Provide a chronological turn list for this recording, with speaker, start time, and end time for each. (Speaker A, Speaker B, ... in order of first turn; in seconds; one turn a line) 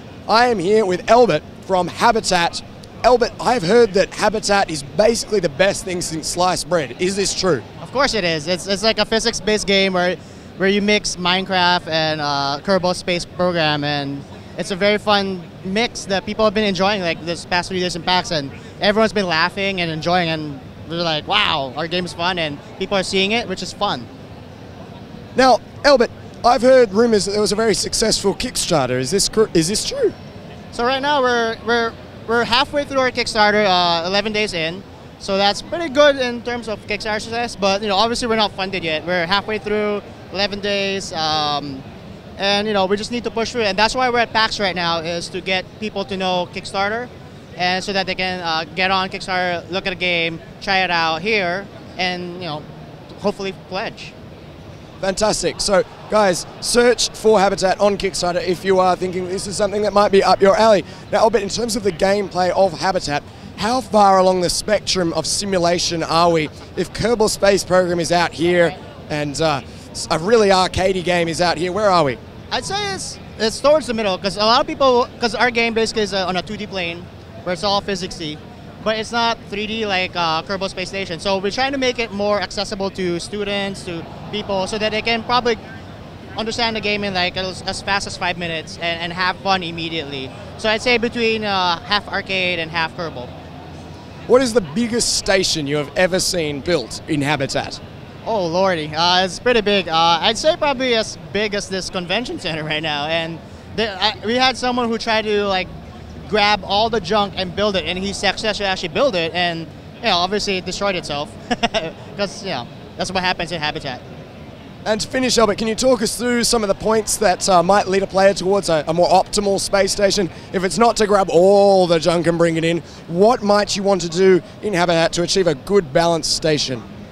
Speaker A: 0.3-7.6
Speaker B: 7.8-24.1
Speaker A: 25.4-30.1
Speaker B: 30.7-41.8
Speaker B: 42.4-52.6
Speaker B: 53.2-54.1
Speaker A: 55.0-72.2
Speaker B: 72.5-85.6
Speaker B: 86.4-93.3
Speaker A: 94.3-97.8
Speaker B: 98.2-105.7
Speaker B: 106.2-114.0
Speaker A: 114.8-126.8